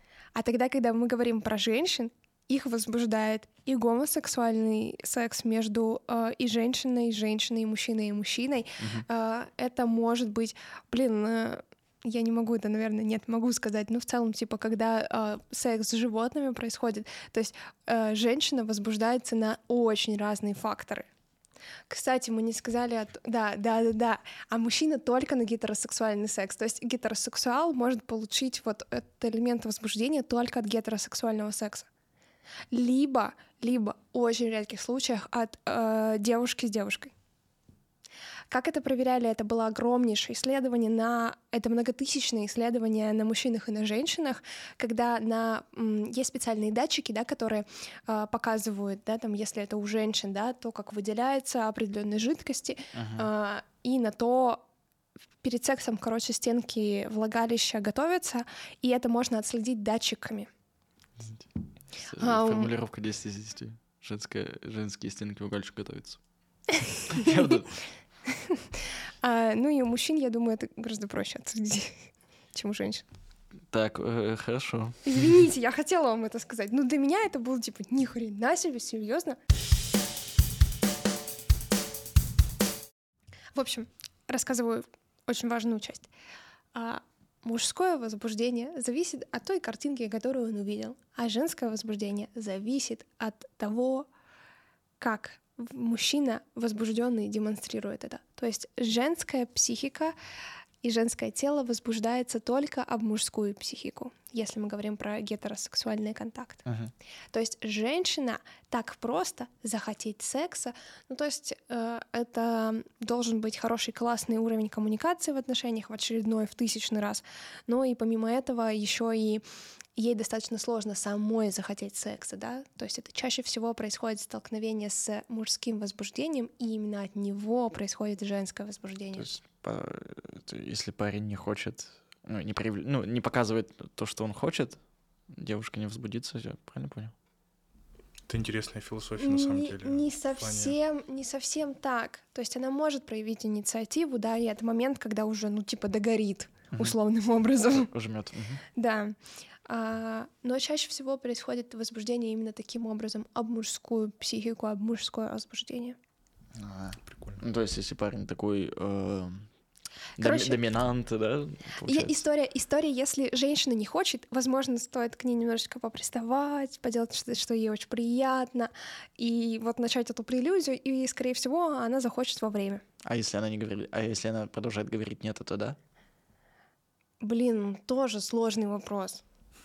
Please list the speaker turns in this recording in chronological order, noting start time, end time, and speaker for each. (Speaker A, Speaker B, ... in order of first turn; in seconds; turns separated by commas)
Speaker A: 0.3-21.1, Speaker B: 8.8-9.1, Speaker A: 21.9-31.9, Speaker A: 32.7-37.1, Speaker A: 38.5-54.6, Speaker B: 52.9-53.3, Speaker A: 55.4-60.5, Speaker B: 61.2-61.5, Speaker B: 62.0-66.2, Speaker A: 62.2-62.7, Speaker A: 66.8-67.3, Speaker B: 67.1-67.8, Speaker A: 68.3-73.0, Speaker B: 73.7-75.4, Speaker A: 75.1-79.4, Speaker A: 83.5-86.1, Speaker A: 86.8-94.1, Speaker A: 95.0-100.2, Speaker A: 100.8-106.7, Speaker B: 106.7-106.9, Speaker A: 107.3-119.4, Speaker A: 120.0-129.3, Speaker B: 129.2-134.8, Speaker B: 135.3-137.1, Speaker C: 138.3-140.8, Speaker A: 139.2-147.9, Speaker B: 147.7-148.6, Speaker A: 148.8-156.0, Speaker B: 156.6-159.5, Speaker C: 157.0-157.4, Speaker B: 160.2-162.2, Speaker A: 160.2-160.6, Speaker A: 161.9-172.8, Speaker B: 173.0-175.8, Speaker A: 177.2-179.2